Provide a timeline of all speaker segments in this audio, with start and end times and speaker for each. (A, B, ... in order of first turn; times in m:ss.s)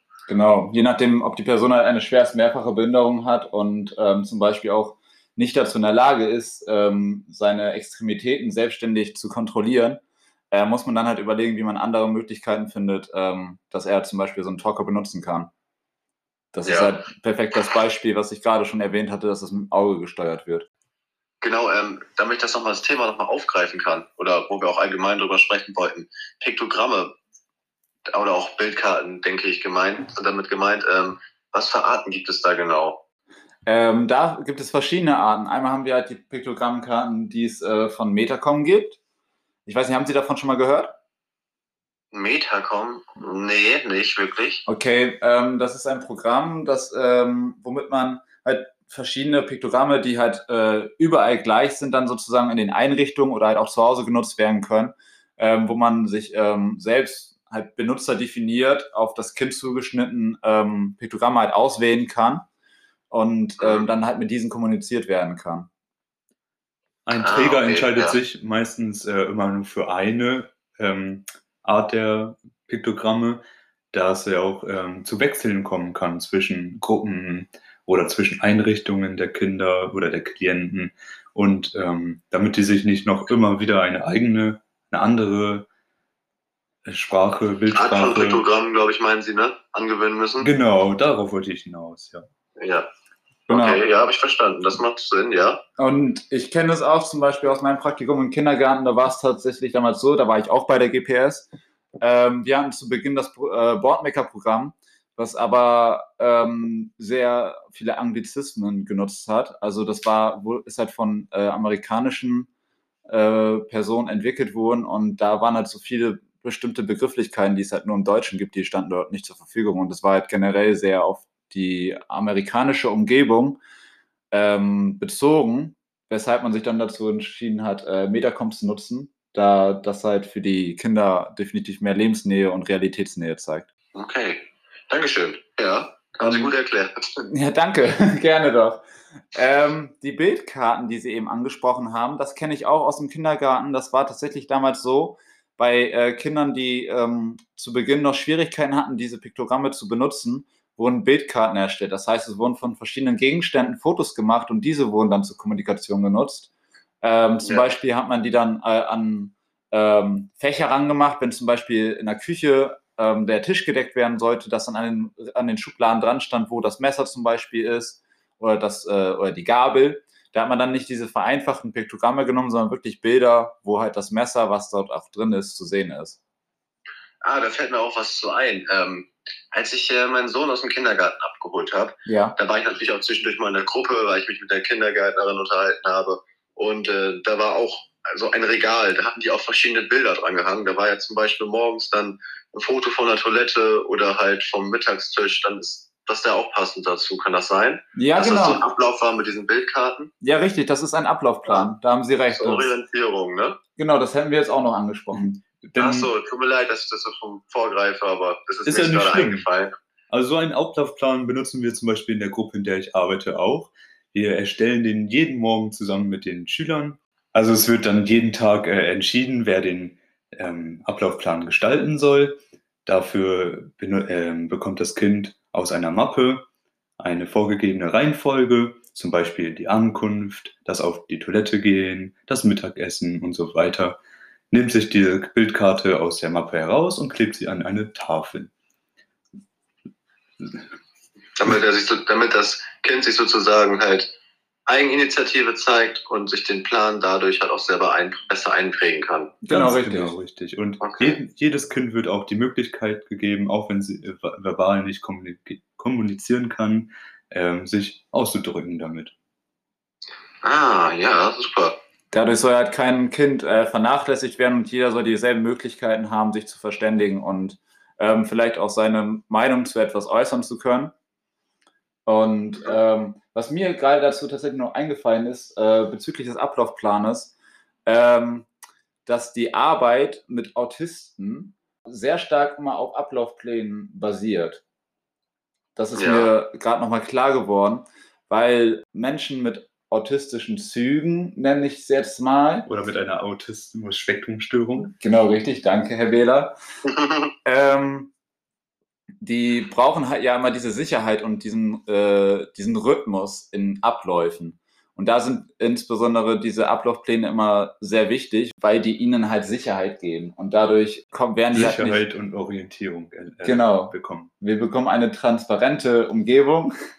0:00.3-0:15.5 A
0:16.5-0:20.7 A
0:16.6-0:16.9 B
0:21.4-0:27.1 B
0:28.1-0:33.0 B
0:33.6-0:39.0 A
0:39.6-0:40.9 A
0:42.1-0:44.6 B
0:44.7-1:02.4 A
1:03.1-1:05.7 A
1:03.6-1:03.9 B
1:07.0-1:13.4 C
1:07.1-1:08.2 B
1:13.9-1:25.7 C
1:26.8-1:28.4 C
1:27.7-1:30.5 B
1:30.4-1:32.2 C
1:32.6-1:32.9 B
1:33.5-1:33.8 A
1:33.5-1:35.6 B
1:35.8-1:41.5 A
1:42.0-1:52.5 A
1:53.1-2:03.6 A
2:04.3-2:13.7 A
2:13.9-2:16.9 B
2:16.2-2:16.5 A
2:17.3-2:36.5 A
2:37.0-2:56.2 A
2:57.2-3:20.1 B
3:02.0-3:02.4 A
3:17.9-3:18.6 A
3:20.2-3:22.8 A
3:22.3-3:23.6 B
3:23.8-3:25.4 A
3:25.6-3:26.1 C
3:25.8-3:29.7 B
3:28.6-3:29.4 C
3:30.1-3:46.4 C
3:47.0-3:54.0 C
3:54.5-3:58.5 C
4:01.4-4:04.1 B
4:04.7-4:09.3 B
4:09.4-4:10.1 A
4:09.5-4:19.1 C
4:10.8-4:11.2 B
4:20.4-4:21.8 B
4:22.1-4:30.9 A
4:32.0-4:37.3 A
4:37.8-4:38.5 A
4:39.0-4:44.6 A
4:45.8-4:52.7 A
4:46.0-4:46.3 B
4:52.6-4:54.9 C
4:55.0-4:56.6 A
4:56.9-4:57.3 B
4:57.4-4:58.1 A
4:59.2-5:12.0 A
5:11.5-5:14.3 C
5:13.4-5:16.7 A